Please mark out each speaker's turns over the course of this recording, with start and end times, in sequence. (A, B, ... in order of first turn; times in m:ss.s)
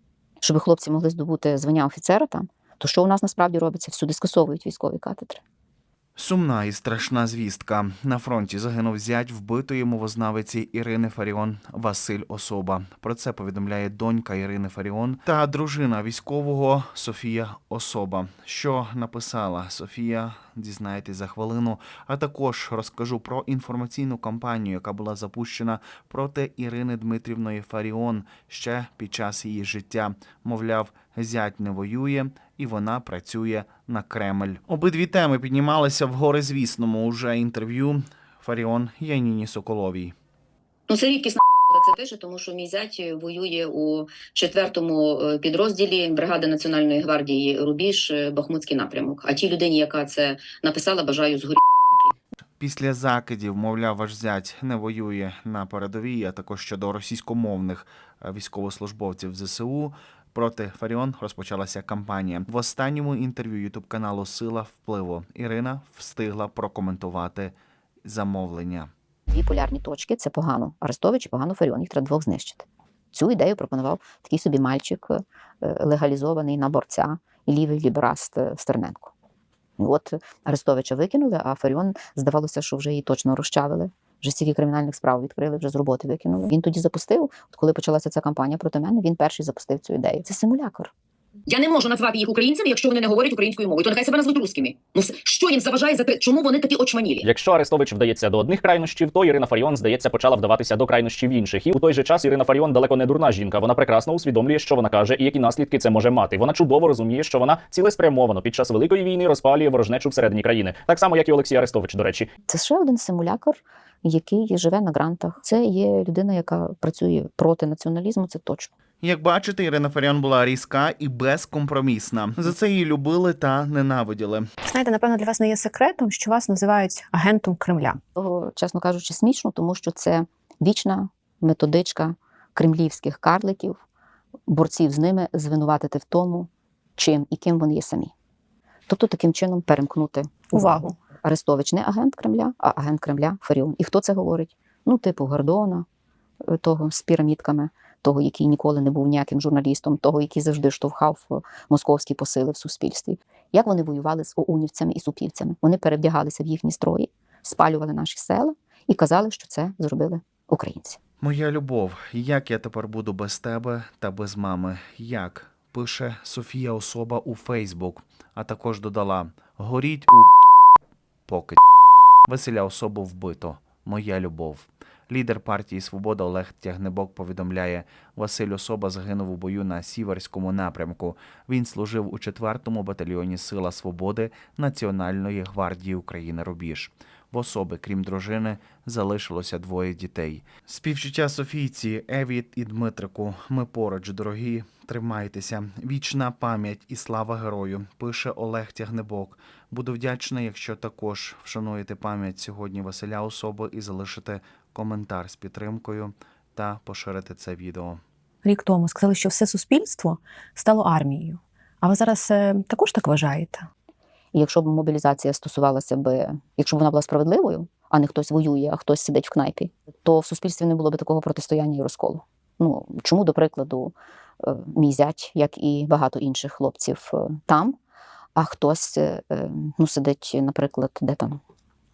0:00.4-0:05.4 A
0:06.2-0:40.1 B
0:40.9-0:52.1 A
0:52.6-1:08.9 B
1:09.3-1:19.1 A
1:19.8-1:30.9 A
1:31.5-1:37.3 C
1:37.2-1:52.3 D
1:52.5-1:58.7 A
1:59.0-2:04.4 B
2:04.7-2:08.0 E
2:08.2-2:13.8 A
2:14.5-2:18.1 A
2:18.9-2:20.6 A
2:20.5-2:20.9 E
2:21.2-2:25.8 A
2:26.4-2:41.0 A
2:41.2-2:50.3 B
2:51.3-2:51.6 B
2:52.2-3:28.0 B
3:28.4-3:33.6 E
3:34.3-3:47.8 A
3:48.3-3:51.4 A